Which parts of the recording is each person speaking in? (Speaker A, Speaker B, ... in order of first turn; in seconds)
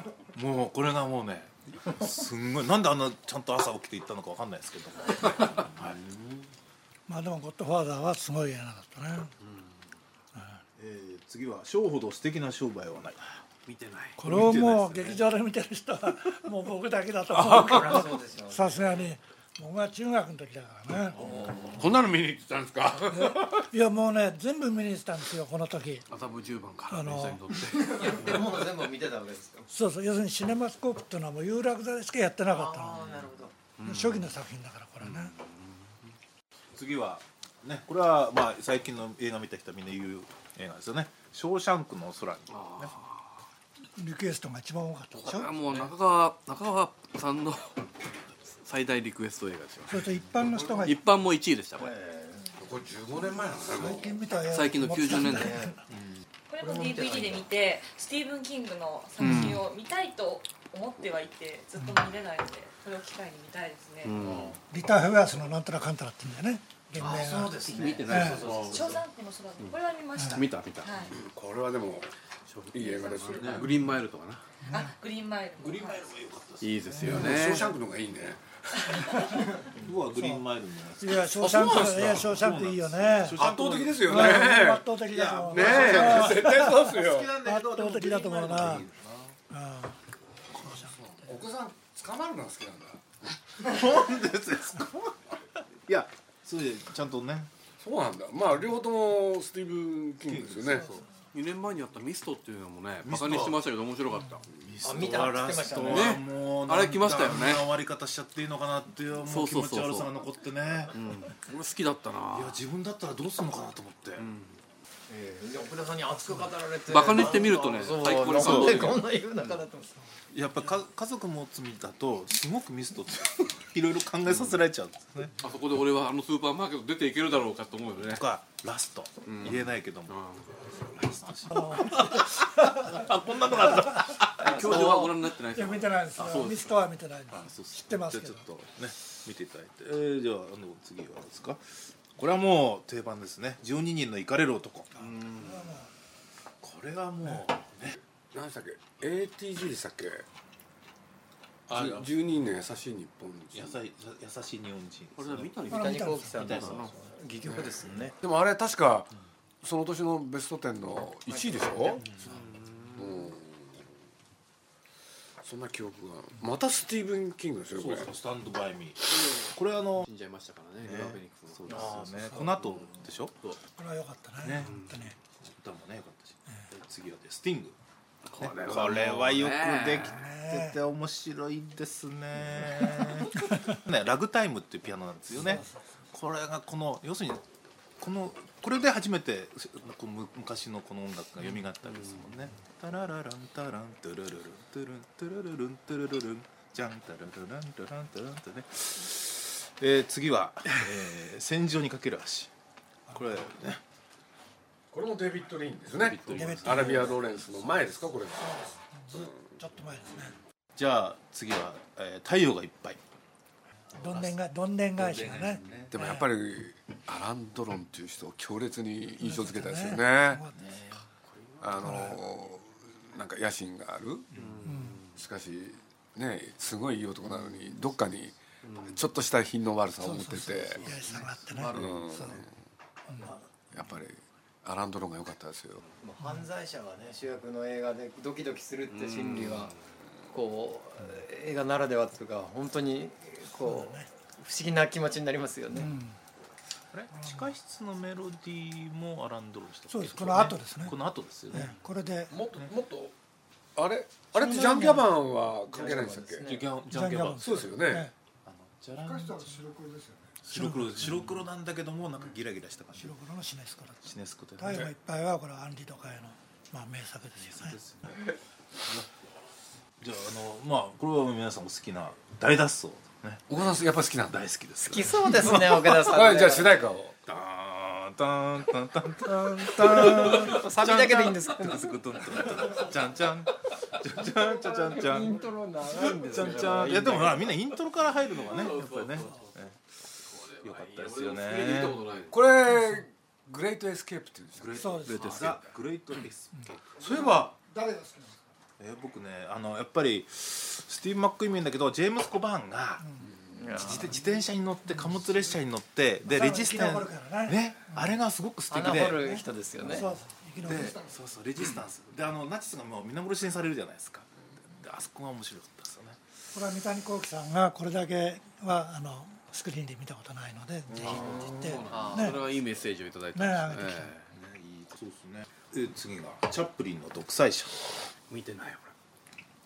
Speaker A: 0.3-6.0, 10.8-13.4, 14.2-15.2, 21.2-21.7, 36.7-43.0, 59.2-59.6, 64.2-64.6, 67.8-69.0, 75.6-77.6, 79.7-89.4, 93.6-95.2, 95.9-97.5, 100.2-101.1, 103.0-103.6, 104.6-111.0, 112.2-114.3, 118.1-119.1, 120.3-125.3, 128.0-130.2, 130.8-134.8, 136.2-136.6, 137.3-145.1, 146.6-148.0, 151.7-152.1, 153.5-155.7, 156.3-156.9, 162.1-162.4, 167.7-170.1, 170.8-173.6, 174.4-177.8, 178.4-187.4, 188.0-202.5, 203.1-203.8, 206.0-207.1, 210.8-213.0, 213.9-214.4, 214.9-215.9, 220.5-221.0, 224.3-224.7, 246.9-251.8, 256.4-257.7, 258.4-259.8, 260.4-263.2, 264.0-264.9, 267.4-268.3, 270.0-273.4, 274.3-276.0, 277.2-289.7, 290.6-292.0, 294.6-297.5, 298.8-303.1, 303.8-309.4, 310.6-316.2, 321.1-321.4, 324.3-328.0
Speaker B: 7.1-9.3, 14.2-21.2, 23.1-26.1, 26.9-27.4, 29.7-33.0, 33.8-35.3, 44.0-45.5, 49.9-51.0, 53.7-55.8, 59.2-59.5, 64.7-68.4, 81.0-83.4, 84.0-88.8, 89.5-90.0, 90.6-90.9, 131.5-132.9, 135.5-138.4, 145.0-145.9, 155.7-156.4, 173.8-175.1, 180.2-180.8, 185.4-185.7, 206.3-207.1, 208.4-210.3, 213.9-216.2, 219.2-220.6, 221.8-222.2, 224.6-225.0, 230.0-232.4, 243.5-244.1, 245.7-246.2, 247.1-247.4, 249.9-250.9, 251.5-252.3, 254.3-255.1, 256.9-258.1, 260.5-261.3, 262.9-267.8, 294.8-295.2, 297.7-298.4, 306.2-308.1, 309.3-311.0, 316.5-322.4, 323.3-324.1
Speaker C: 9.4-9.7, 13.7-14.2, 26.1-28.7, 33.8-34.3, 35.0-35.6, 42.5-43.3, 45.2-47.8, 48.6-50.0, 50.8-51.9, 54.5-55.6, 64.0-64.6, 67.7-68.7, 70.3-71.1, 72.5-74.4, 76.6-77.7, 101.3-104.5, 105.8-107.7, 109.2-110.1, 110.9-112.6, 114.2-114.6, 116.9-119.5, 125.4-128.2, 129.2-130.5, 134.2-136.7, 145.0-145.7, 155.2-156.9, 162.2-163.2, 170.0-172.9, 174.6-174.9, 178.3-180.3, 191.8-192.3, 206.2-207.0, 221.3-221.9, 224.3-225.1, 228.6-229.0, 230.8-232.2, 238.9-239.8, 288.3-289.6, 290.2-292.4, 321.0-324.3, 328.3-328.9
Speaker D: 17.4-19.1, 21.1-21.8, 27.7-29.7, 32.5-33.5, 51.8-52.5, 55.1-55.8, 56.6-57.4, 67.0-69.0, 104.8-106.2, 115.1-120.0, 134.4-135.1, 155.7-158.2, 161.3-162.0, 171.7-172.2, 236.0-239.7, 240.3-245.9, 255.7-256.8, 274.8-276.9, 279.3-282.0, 284.6-287.5, 303.5-304.1, 308.7-310.1, 321.0-322.4
Speaker E: 21.7-23.7, 52.6-54.1, 71.1-72.1, 72.7-73.7, 77.0-79.0, 83.3-84.9, 85.5-87.3, 90.8-93.2, 97.8-100.9, 148.3-150.2, 151.7-153.8, 158.2-159.1, 159.6-162.1, 162.9-163.7, 165.4-168.1, 204.9-208.6, 215.9-220.4, 221.6-224.3, 225.2-231.0, 231.7-232.5, 233.7-235.8, 252.3-253.1, 253.8-256.5, 257.4-258.1, 273.5-274.4, 275.8-277.1, 292.3-295.6, 297.0-297.5
Speaker F: 56.5-64.2, 68.7-71.1, 72.8-73.7, 74.7-76.1